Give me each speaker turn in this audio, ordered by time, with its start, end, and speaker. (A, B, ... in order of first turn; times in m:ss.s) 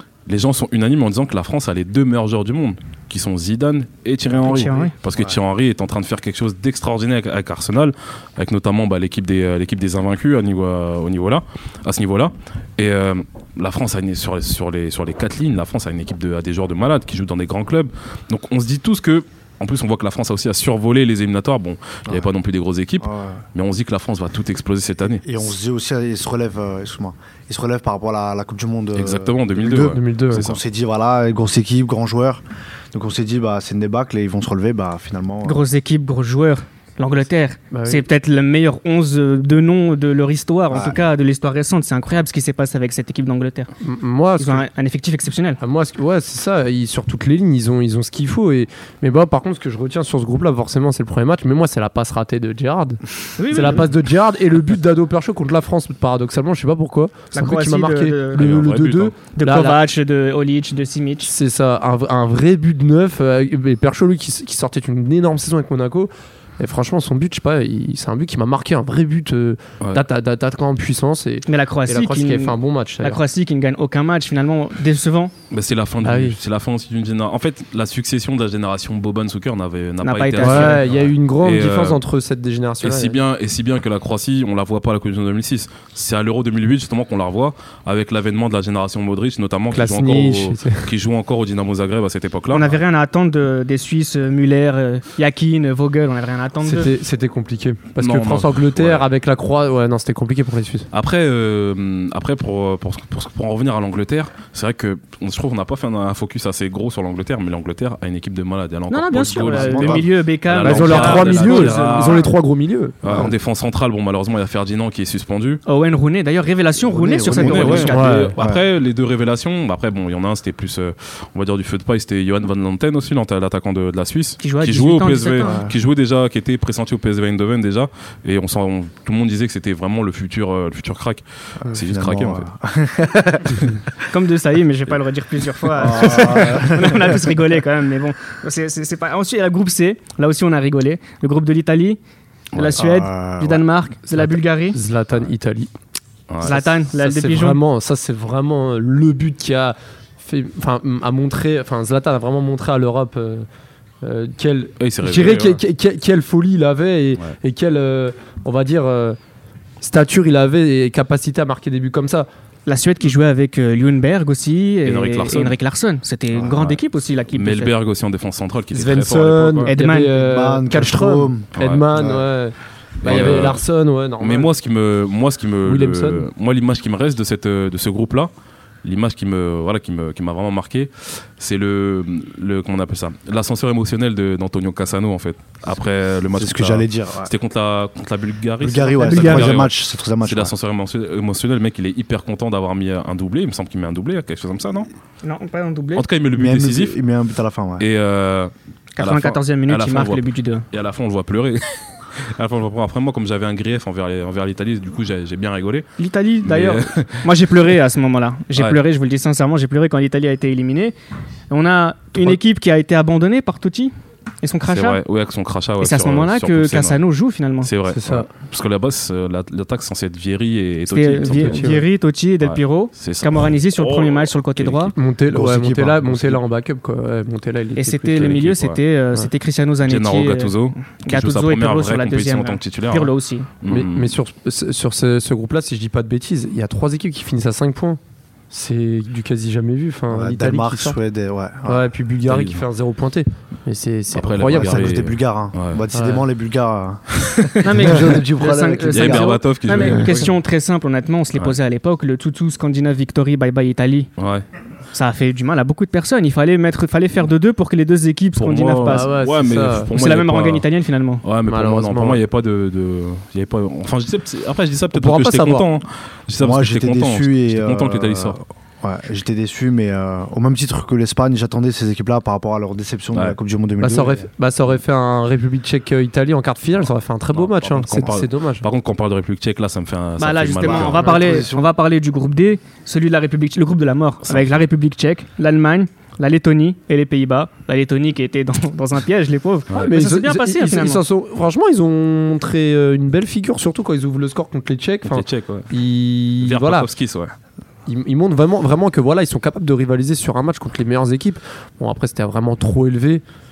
0:00.3-0:25.2 A
0:04.4-0:04.9 B
0:04.7-0:05.3 C
0:23.0-0:23.4 C
0:25.2-0:35.6 C
0:29.0-0:30.6 A
0:29.8-0:30.4 D
0:35.4-0:43.7 B
0:37.7-0:38.0 D
0:40.7-0:41.0 C
0:43.8-0:44.6 D
0:44.4-0:45.6 B
0:45.6-0:59.8 D
0:53.4-0:53.9 B
0:57.3-0:58.5 B
0:58.4-0:59.1 A
0:59.4-1:01.3 B
1:01.2-1:13.2 D
1:11.5-1:15.3 B
1:15.5-1:22.0 A
1:16.0-1:16.4 D
1:20.0-1:20.8 B
1:20.4-1:23.2 D
1:22.8-1:32.8 A
1:29.7-1:30.9 D
1:32.5-1:36.9 B
1:36.6-1:40.9 D
1:38.0-1:39.1 A
1:40.9-1:52.3 A
1:48.9-1:52.3 B
1:49.2-1:50.1 C
1:50.6-1:53.3 D
1:53.0-1:55.6 A
1:53.0-1:53.3 C
1:55.7-1:58.3 B
1:56.8-1:58.6 C
1:57.3-2:12.5 A
1:57.9-1:58.3 D
2:04.4-2:05.6 B
2:05.4-2:05.7 C
2:11.6-2:13.7 C
2:14.1-2:22.0 B
2:15.7-2:17.3 C
2:22.5-2:22.8 A
2:22.5-2:24.8 B
2:22.8-2:23.7 C
2:24.1-2:25.7 D
2:26.3-2:26.7 A
2:26.4-2:27.6 B
2:26.4-2:33.5 D
2:34.0-2:39.2 D
2:34.8-2:35.6 A
2:39.8-2:42.3 D
2:42.7-2:47.7 B
2:44.8-2:45.6 A
2:46.4-2:46.8 A
2:47.3-2:49.7 A
2:48.7-2:54.5 D
2:49.7-2:50.1 B
2:50.1-2:52.2 C
2:51.6-2:51.9 A
2:53.0-2:53.6 A
2:53.1-2:53.5 C
2:54.2-2:58.3 A
2:55.6-2:56.3 D
2:58.8-3:14.9 A
3:06.3-3:07.3 C
3:08.6-3:10.5 C
3:09.0-3:09.5 B
3:15.2-3:16.0 B
3:16.0-3:17.0 A
3:16.3-3:17.9 C
3:17.8-3:25.9 A
3:19.0-3:20.6 B
3:26.0-3:31.0 B
3:26.4-3:27.3 A
3:31.5-3:35.0 B
3:34.7-3:37.0 A
3:35.8-3:37.7 B
3:37.6-3:41.8 A
3:37.9-3:38.3 D
3:40.9-3:44.9 B
3:41.3-3:41.8 D
3:42.4-3:44.9 A
3:45.0-3:48.4 D
3:45.5-3:45.8 C
3:45.5-3:46.3 A
3:47.8-3:53.5 B
3:48.1-3:48.8 A
3:49.8-3:54.1 A
3:53.7-3:58.0 D
3:58.5-4:01.0 D
4:00.1-4:01.9 C
4:01.6-4:04.9 D
4:02.3-4:02.6 A
4:04.1-4:05.8 A
4:04.5-4:09.4 C
4:05.9-4:06.2 D
4:07.6-4:14.1 B
4:08.9-4:10.3 A
4:14.2-4:14.4 A
4:14.9-4:19.1 B
4:18.4-4:20.7 A
4:18.9-4:19.9 D
4:19.9-4:21.2 B
4:21.2-4:28.4 A
4:21.5-4:22.2 D
4:24.9-4:25.7 D
4:26.4-4:34.3 C
4:33.8-4:38.7 D
4:37.3-4:41.2 A
4:40.2-4:51.0 B
4:40.6-4:41.7 C
4:44.2-4:44.5 A
4:49.7-4:56.9 D
4:55.0-4:55.7 A
4:56.4-4:57.3 A
4:57.9-5:03.2 D